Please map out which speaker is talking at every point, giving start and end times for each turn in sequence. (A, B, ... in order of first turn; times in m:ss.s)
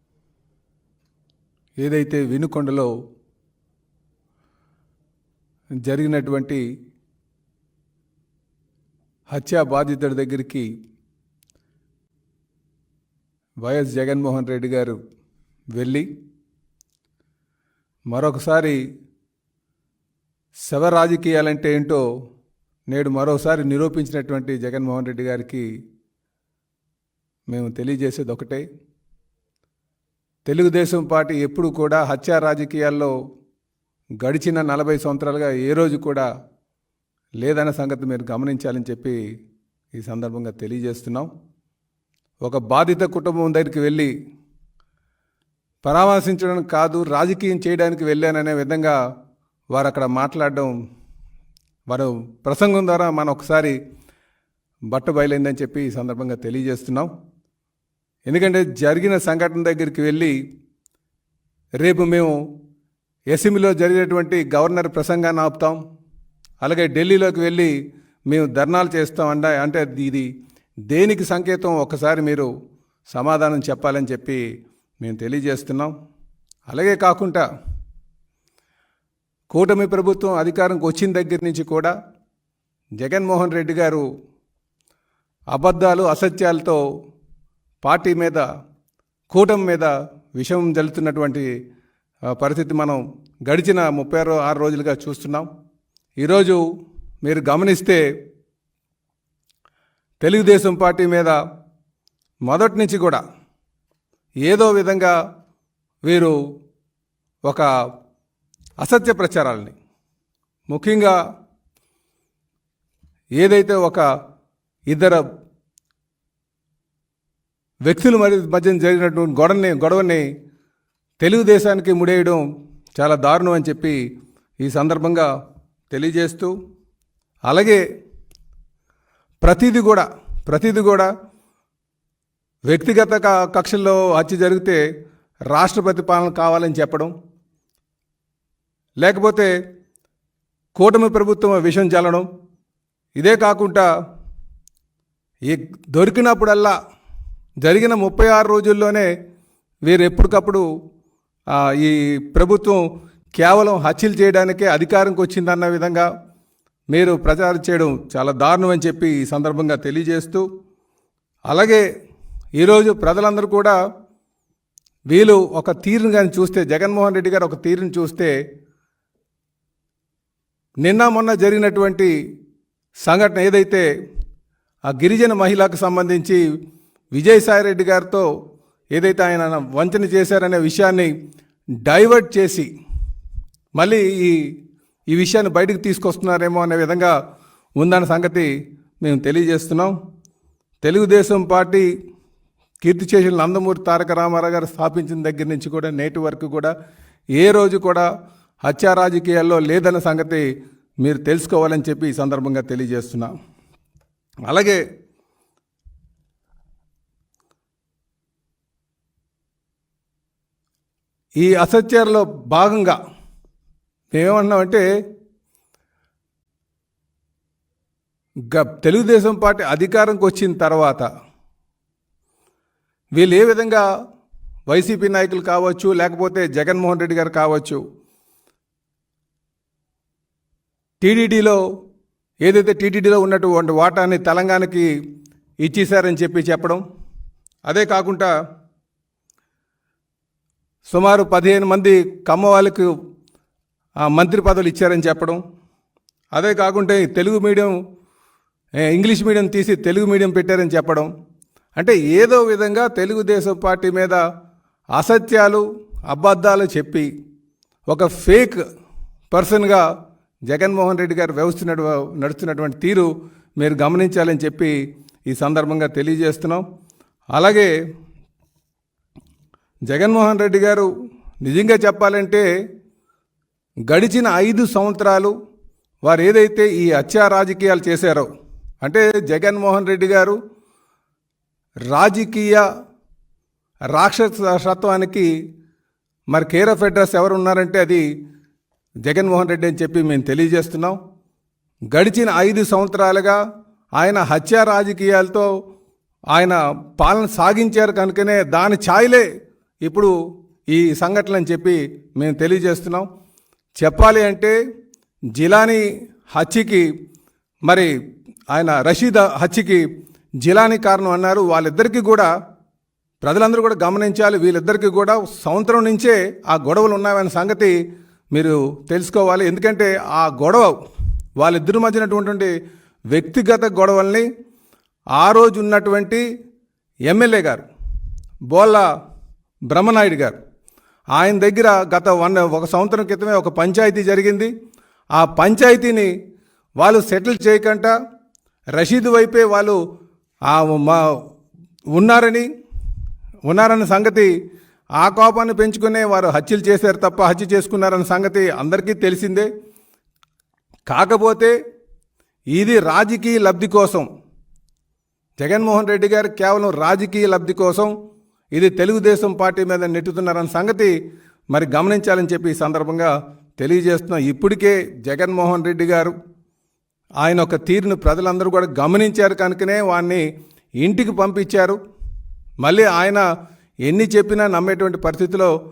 0:01.8-0:02.9 A
0:05.9-0:06.6 A
0:09.3-0:10.7 A
0:13.6-0:15.0 A
0:15.7-0:16.1 A
0:18.1-0:18.8 A
0:20.7-0:22.0 A
0:22.9-0:25.7 A
0:27.5-0:28.6 A
0:30.5-0:33.1 A
0:34.2-0:36.3 A
0:37.4-0:39.2 A
0:40.0-0:41.3 A
0:42.4-0:44.1 A
0:45.8-0:49.0 A
0:49.7-0:50.7 A
0:51.9-0:53.8 A
0:54.9-0:57.1 A
0:58.3-1:00.4 A
1:01.8-1:02.4 A
1:03.3-1:05.8 A
1:06.6-1:07.7 A
1:08.3-1:10.3 A
1:10.9-1:12.5 A
1:13.1-1:14.4 A
1:15.0-1:15.9 A
1:16.7-1:17.5 A
1:19.5-1:21.9 A
1:23.0-1:24.1 A
1:25.5-1:26.8 A
1:27.8-1:28.5 A
1:29.3-1:31.5 A
1:32.3-1:35.5 A
1:36.2-1:36.6 A
1:37.2-1:38.0 A
1:40.2-1:41.4 A
1:42.5-1:43.2 A
1:44.4-1:45.2 A
1:46.1-1:46.4 A
1:48.8-1:49.7 A
1:50.7-1:51.2 A
1:53.4-1:54.0 A
1:54.9-1:55.2 A
1:57.9-2:00.3 A
2:01.2-2:02.4 A
2:03.0-2:04.0 A
2:04.6-2:05.3 A
2:05.9-2:06.5 A
2:07.5-2:07.8 A
2:09.4-2:11.1 A
2:12.7-2:14.8 A
2:15.5-2:17.1 A
2:19.0-2:19.5 A
2:20.8-2:22.3 A
2:23.2-2:23.9 A
2:25.5-2:26.8 A
2:27.6-2:29.1 A
2:29.9-2:30.6 A
2:31.5-2:32.8 A
2:33.4-2:36.1 A
2:36.9-2:40.4 A
2:41.5-2:41.8 A
2:42.6-2:43.8 A
2:45.1-2:48.3 A
2:50.8-2:52.1 A
2:53.0-2:53.9 A
2:54.9-2:56.4 A
2:57.1-2:58.3 A
2:58.9-3:01.1 A
3:01.8-3:02.7 A
3:03.8-3:04.5 A
3:05.1-3:07.2 A
3:07.8-3:08.5 A
3:09.0-3:09.9 A
3:10.8-3:11.9 A
3:12.8-3:16.7 A
3:17.4-3:18.1 A
3:18.6-3:20.5 A
3:21.0-3:23.3 A
3:24.5-3:24.8 A
3:31.4-3:33.0 A
3:34.1-3:34.8 A
3:38.5-3:41.1 A
3:43.2-3:43.9 A
3:44.7-3:47.8 A
3:51.0-3:51.6 A
3:52.4-3:54.9 A
3:55.6-3:56.8 A
3:57.7-3:58.3 A
4:00.9-4:02.9 A
4:04.0-4:05.4 A
4:06.3-4:07.8 A
4:08.8-4:11.1 A
4:11.8-4:14.2 A
4:15.0-4:17.1 A
4:17.9-4:18.6 A
4:19.3-4:19.8 A
4:20.5-4:24.8 A
4:25.3-4:26.6 A
4:27.3-4:27.7 A
4:29.9-4:30.9 A
4:31.4-4:32.5 A
4:33.9-4:35.3 A
4:36.0-4:38.3 A
4:38.8-4:40.4 A
4:41.9-4:42.7 A
4:43.9-4:45.3 A
4:46.3-4:48.0 A
4:49.0-4:51.0 A
4:51.9-4:53.4 A
4:54.0-4:55.5 A
4:56.3-4:59.3 A
4:59.8-5:00.1 A
5:00.7-5:03.1 A
5:03.8-5:04.6 A
5:05.3-5:06.9 A
5:08.5-5:09.8 A
5:10.4-5:12.3 A
5:13.2-5:17.8 A
5:18.3-5:20.8 A
5:21.4-5:22.5 A
5:23.1-5:24.3 A
5:25.2-5:26.2 A
5:27.1-5:27.6 A
5:28.5-5:28.8 A
5:29.7-5:30.4 A
5:31.2-5:34.5 A
5:35.2-5:36.1 A
5:36.8-5:37.9 A
5:38.8-5:39.8 A
5:40.5-5:41.0 A
5:42.0-5:42.5 A
5:43.5-5:44.3 A
5:45.0-5:49.5 A
5:50.9-5:51.6 A
5:52.5-5:54.1 A
5:55.4-5:57.9 A
5:58.5-6:00.9 A
6:01.5-6:06.2 A
6:07.2-6:10.2 A
6:10.8-6:11.8 A
6:12.6-6:13.2 A
6:13.8-6:15.5 A